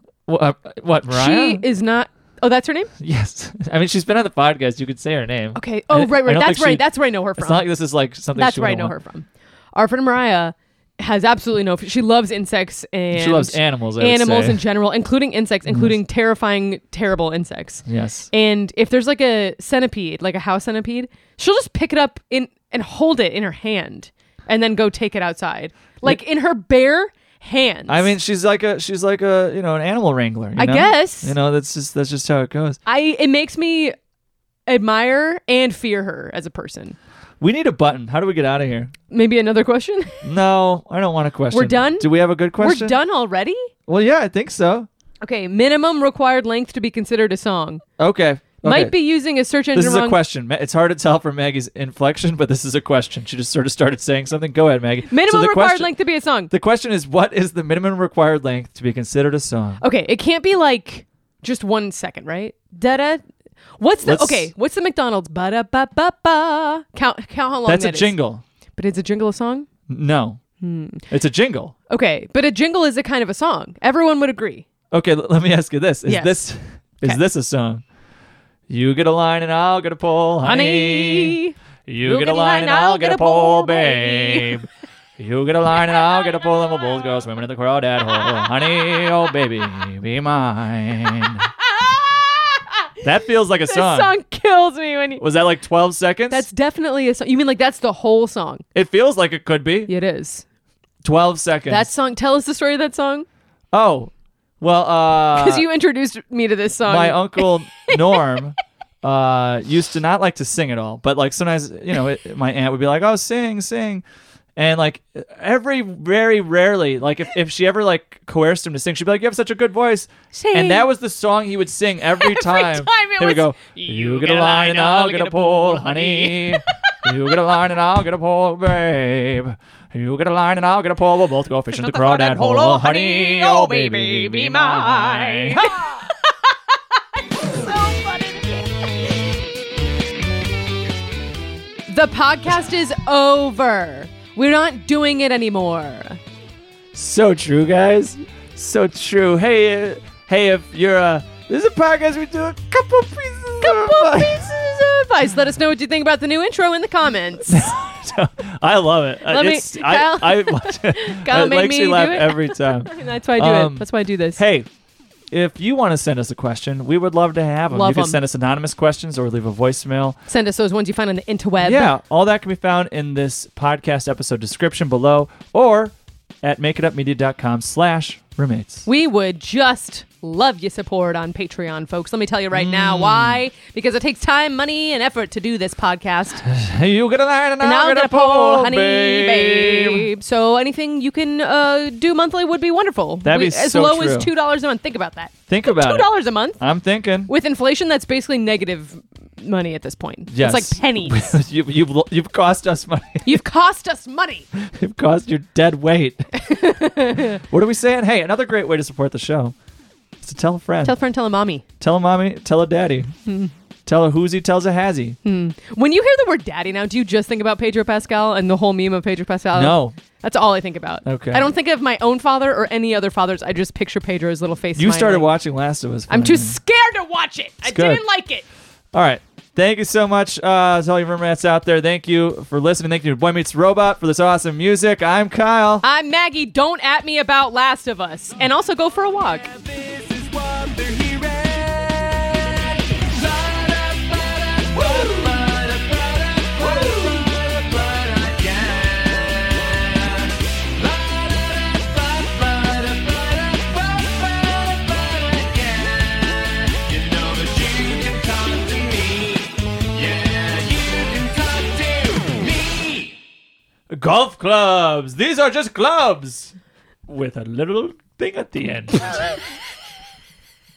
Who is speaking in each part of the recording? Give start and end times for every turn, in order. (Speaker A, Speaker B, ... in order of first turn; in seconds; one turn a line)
Speaker A: 0.3-1.6
Speaker B: 1.1-2.9
Speaker A: 3.0-6.8
Speaker B: 5.5-7.7
Speaker A: 7.4-8.9
Speaker B: 8.3-28.1
Speaker A: 13.1-14.6
Speaker A: 15.7-15.9
Speaker A: 17.9-18.3
Speaker A: 27.9-32.8
Speaker B: 30.6-31.4
Speaker B: 32.9-34.0
Speaker B: 34.7-37.0
Speaker A: 37.4-38.9
Speaker B: 39.1-40.2
Speaker A: 40.2-43.0
Speaker B: 41.5-43.7
Speaker A: 43.9-44.9
Speaker B: 45.2-47.8
Speaker A: 48.0-49.0
Speaker B: 48.6-50.2
Speaker A: 49.7-55.9
Speaker B: 55.1-56.5
Speaker A: 56.5-59.8
Speaker B: 59.8-63.2
Speaker B: 63.8-68.2
Speaker A: 64.0-64.5
Speaker A: 67.7-68.4
Speaker B: 68.8-69.7
Speaker A: 69.9-70.4
Speaker B: 70.6-71.0
Speaker A: 71.1-71.7
Speaker B: 71.9-74.7
Speaker A: 74.9-77.8
Speaker B: 76.0-76.5
Speaker A: 78.7-84.7
Speaker B: 80.4-84.6
Speaker A: 85.2-91.5
Speaker B: 85.8-87.1
Speaker B: 88.2-89.1
Speaker B: 91.6-93.0
Speaker A: 93.0-94.1
Speaker B: 93.7-95.3
Speaker A: 95.2-96.5
Speaker B: 96.3-98.6
Speaker A: 98.8-99.9
Speaker B: 99.9-100.4
Speaker A: 101.0-101.9
Speaker B: 101.7-103.3
Speaker A: 103.7-105.7
Speaker B: 105.3-108.5
Speaker A: 106.9-114.0
Speaker A: 114.6-136.0
Speaker B: 120.3-120.9
Speaker B: 122.1-127.1
Speaker B: 131.7-139.3
Speaker B: 141.9-146.2
Speaker A: 146.9-154.6
Speaker B: 153.6-157.8
Speaker A: 157.5-164.7
Speaker B: 159.3-164.4
Speaker A: 165.3-170.2
Speaker B: 167.7-168.2
Speaker B: 170.3-171.9
Speaker A: 171.6-178.9
Speaker B: 178.9-186.4
Speaker A: 182.5-183.4
Speaker A: 186.4-190.1
Speaker B: 187.6-196.6
Speaker A: 193.2-194.3
Speaker A: 195.5-197.3
Speaker B: 197.3-201.4
Speaker A: 200.3-203.4
Speaker B: 203.2-204.5
Speaker A: 204.6-206.3
Speaker B: 206.3-207.4
Speaker A: 207.4-209.5
Speaker A: 210.2-210.9
Speaker B: 210.8-211.7
Speaker A: 211.8-213.1
Speaker B: 213.3-213.5
Speaker A: 213.9-215.2
Speaker B: 215.2-225.3
Speaker A: 219.5-220.0
Speaker A: 221.1-221.5
Speaker A: 224.8-226.6
Speaker B: 226.1-228.4
Speaker A: 227.6-228.0
Speaker A: 228.9-235.8
Speaker B: 235.8-239.5
Speaker C: 239.6-263.2
Speaker A: 263.9-266.5
Speaker A: 267.1-269.1